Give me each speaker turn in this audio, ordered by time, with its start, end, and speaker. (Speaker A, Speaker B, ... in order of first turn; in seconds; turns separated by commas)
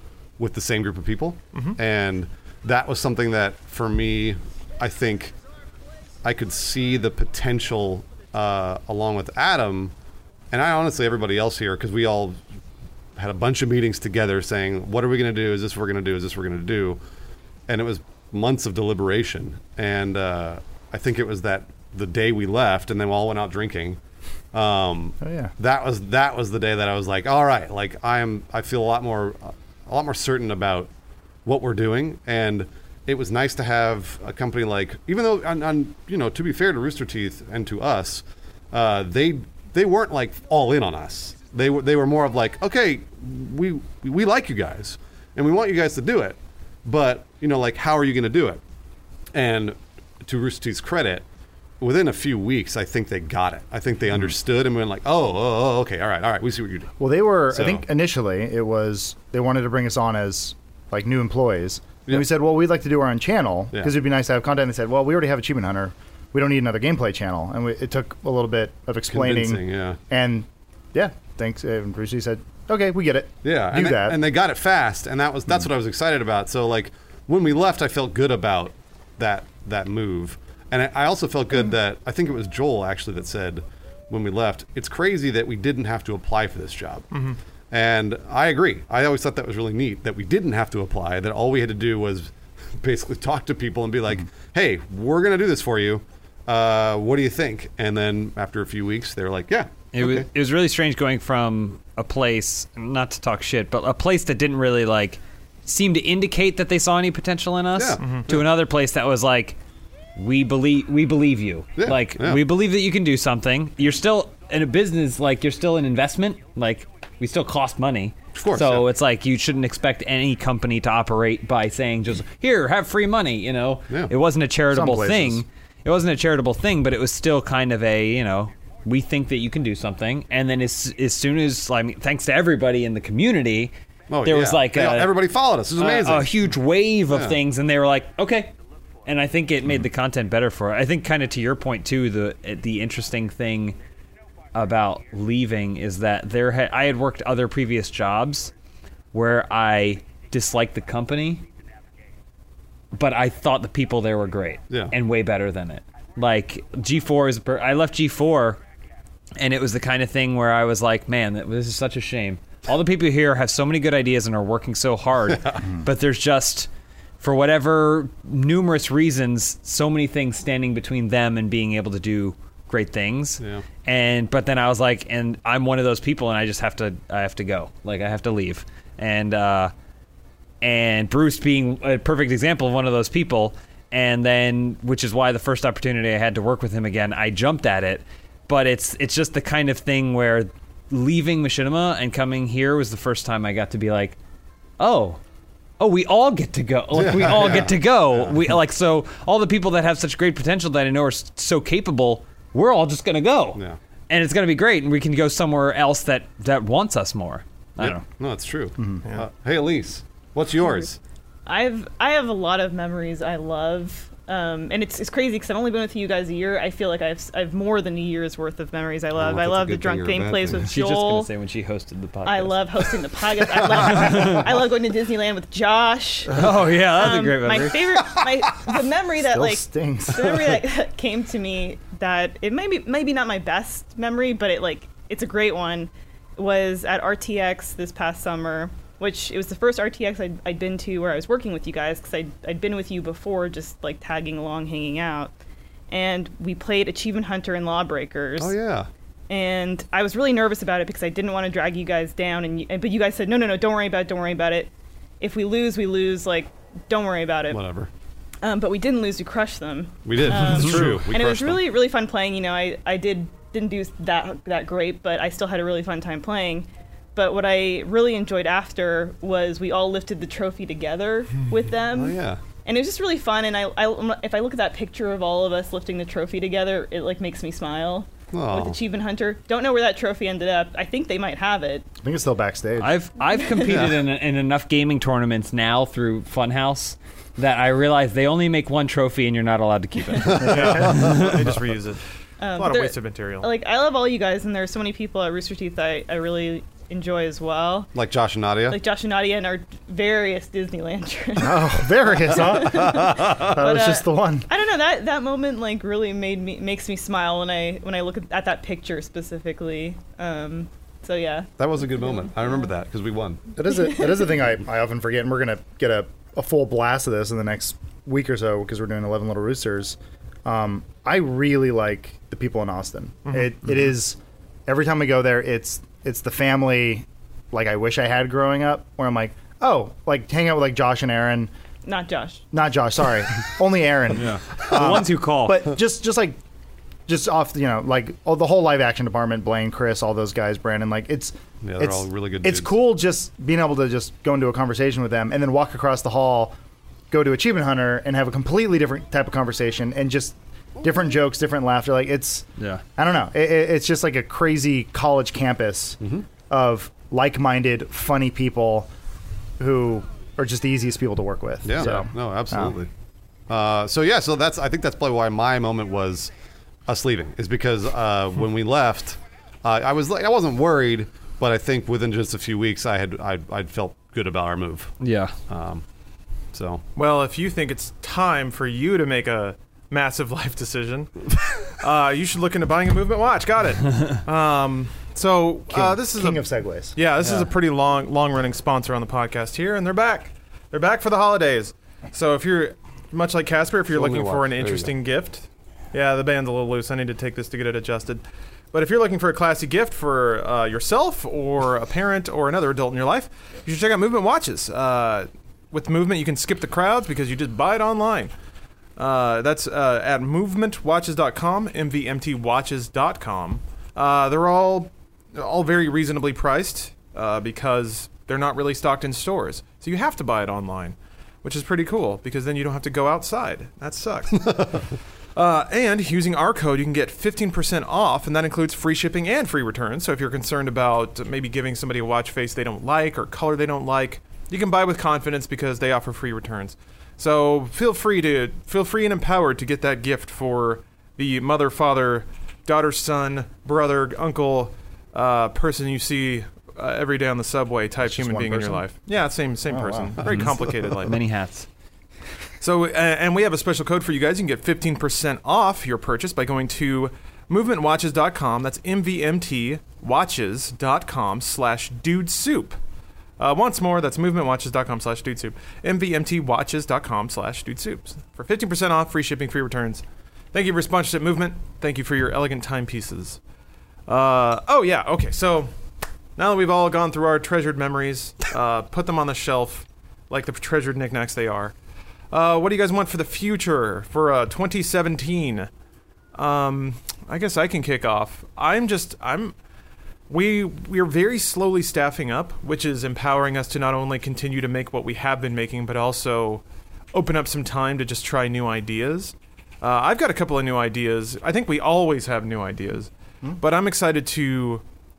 Speaker A: 0.4-5.3, Speaker A: 6.2-9.9, Speaker A: 10.5-12.4, Speaker A: 13.2-17.0, Speaker A: 17.7-24.0, Speaker A: 24.5-30.9, Speaker B: 25.2-25.5, Speaker A: 31.4-48.6, Speaker A: 49.3-51.2, Speaker A: 51.8-56.9, Speaker B: 57.0-74.2, Speaker A: 57.5-57.8, Speaker A: 69.1-70.0, Speaker A: 73.4-87.1, Speaker C: 87.1-87.4, Speaker A: 87.7-100.3, Speaker D: 99.9-109.6, Speaker A: 107.8-108.5, Speaker C: 108.0-108.3, Speaker D: 110.2-133.7, Speaker A: 111.8-112.4, Speaker A: 118.3-118.9, Speaker B: 124.7-125.4, Speaker A: 134.1-136.4, Speaker D: 134.2-135.2, Speaker D: 135.8-138.5, Speaker A: 137.1-137.4, Speaker D: 139.1-143.8, Speaker D: 144.5-148.5, Speaker D: 149.1-151.4, Speaker D: 152.9-158.6, Speaker D: 159.4-166.7, Speaker A: 165.3-165.6, Speaker D: 167.2-179.7, Speaker D: 180.6-194.2, Speaker D: 194.8-195.2, Speaker D: 195.8-208.0, Speaker A: 196.9-198.4, Speaker A: 207.8-211.0, Speaker E: 211.4-221.3, Speaker A: 219.2-220.7, Speaker D: 220.6-222.9, Speaker E: 222.2-245.3, Speaker D: 223.7-224.4, Speaker D: 226.3-227.8, Speaker B: 229.2-230.5, Speaker E: 245.9-248.5, Speaker A: 248.4-248.9, Speaker E: 249.3-257.6, Speaker A: 257.5-257.9, Speaker E: 258.4-281.9, Speaker A: 260.0-261.6, Speaker C: 260.6-261.0, Speaker A: 271.9-272.4, Speaker A: 278.3-278.8, Speaker B: 282.0-282.9, Speaker D: 282.8-291.4, Speaker E: 283.3-283.9, Speaker A: 290.3-291.1, Speaker C: 290.4-292.0, Speaker E: 292.4-297.9, Speaker C: 292.6-293.5, Speaker A: 297.9-298.8, Speaker E: 298.7-312.5, Speaker B: 301.4-304.5, Speaker A: 302.8-303.5, Speaker A: 311.6-313.4, Speaker B: 313.5-331.5, Speaker E: 331.8-332.4, Speaker B: 332.5-336.4, Speaker D: 334.2-335.7, Speaker B: 337.1-346.5, Speaker A: 341.6-342.8, Speaker B: 347.1-358.9, Speaker D: 352.6-352.8, Speaker B: 359.6-362.7, Speaker A: 361.6-362.9, Speaker A: 363.5-366.3, Speaker A: 366.9-374.9, Speaker D: 375.0-375.3, Speaker A: 375.5-375.8, Speaker A: 376.5-376.8, Speaker C: 376.9-408.3, Speaker B: 385.7-386.9, Speaker D: 387.2-387.5, Speaker A: 393.9-394.9, Speaker C: 409.0-451.2, Speaker B: 448.0-448.8, Speaker B: 449.7-450.2, Speaker D: 450.2-451.7, Speaker C: 452.6-462.8, Speaker C: 463.4-473.4, Speaker C: 474.1-475.7, Speaker C: 476.4-481.7, Speaker C: 482.3-485.7, Speaker C: 486.3-489.5, Speaker C: 490.3-504.8